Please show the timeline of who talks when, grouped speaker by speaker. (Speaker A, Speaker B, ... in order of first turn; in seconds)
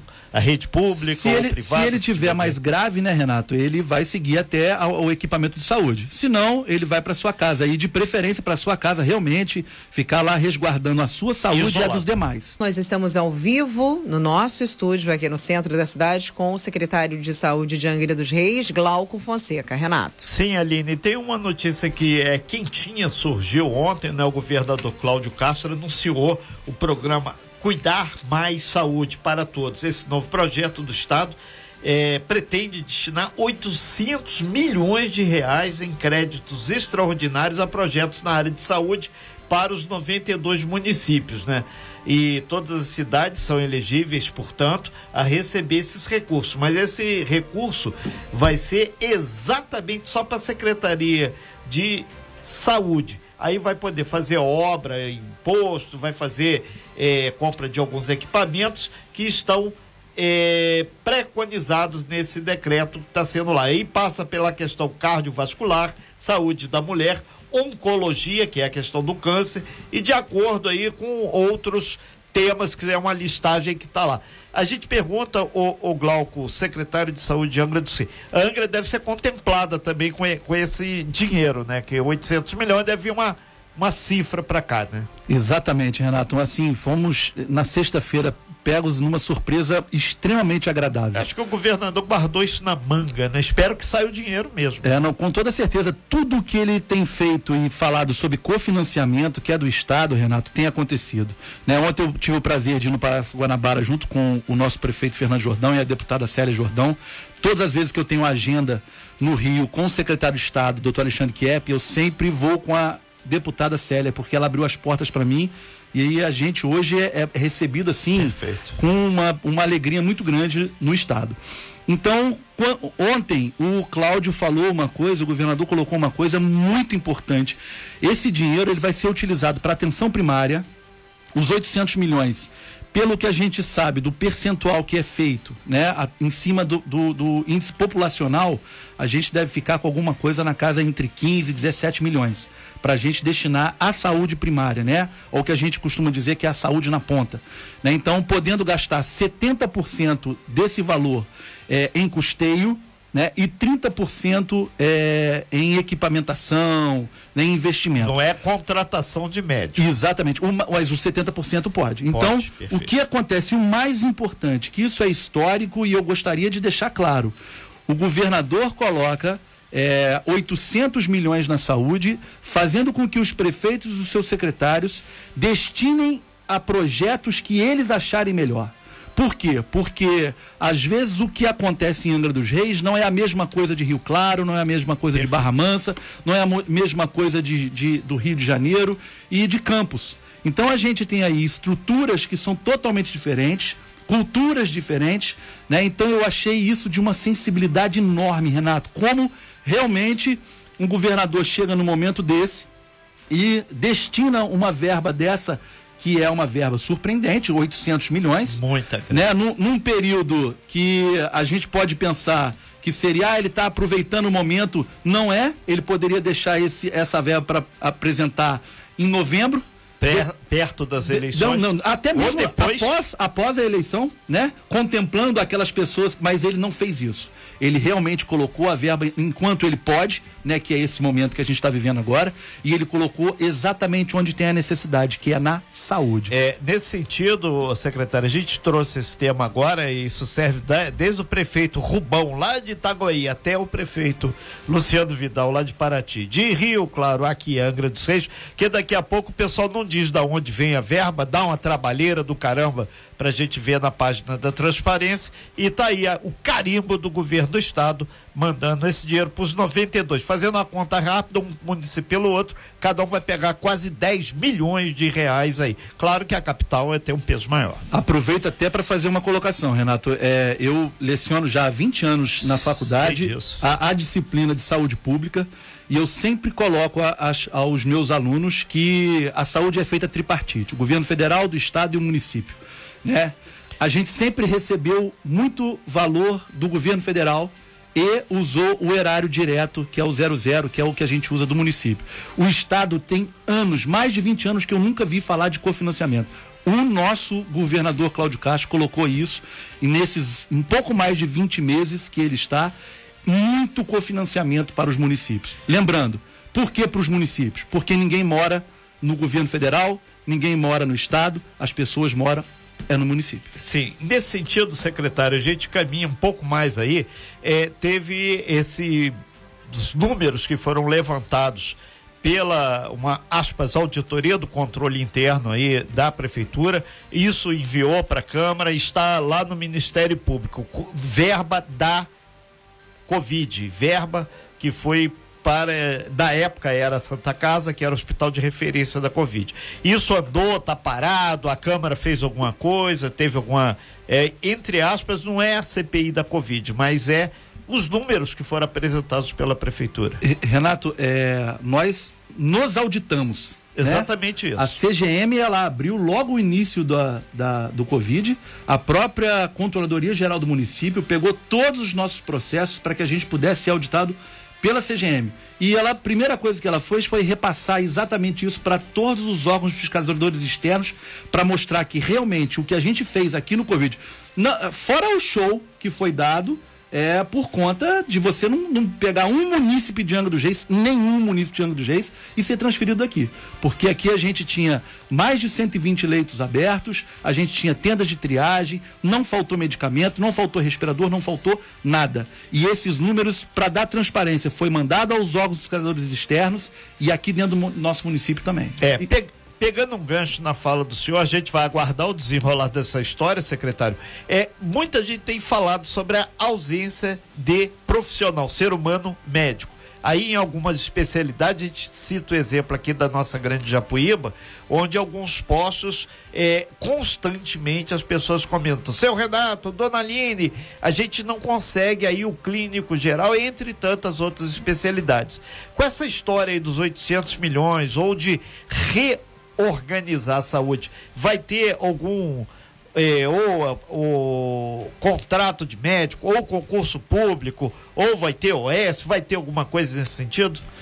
Speaker A: 0.3-2.6, 11.5-12.1, 20.2-85.1, 91.1-94.8, 118.2-118.8, 158.0-159.9, 162.1-162.9, 185.1-185.5, 208.5-209.2, 220.0-222.9, 236.3-267.8, 272.4-273.6, 313.5-319.1, 319.7-332.1, 333.1-350.2, 353.8-354.8, 398.8-440.6
Speaker B: 1.0-12.6, 85.3-91.3, 94.8-130.6, 131.3-158.2, 159.8-167.3, 167.9-202.7, 203.3-208.6, 209.1-220.3, 221.0-236.3, 267.9-302.7, 303.2-313.5, 350.2-399.0
Speaker C: 12.6-20.3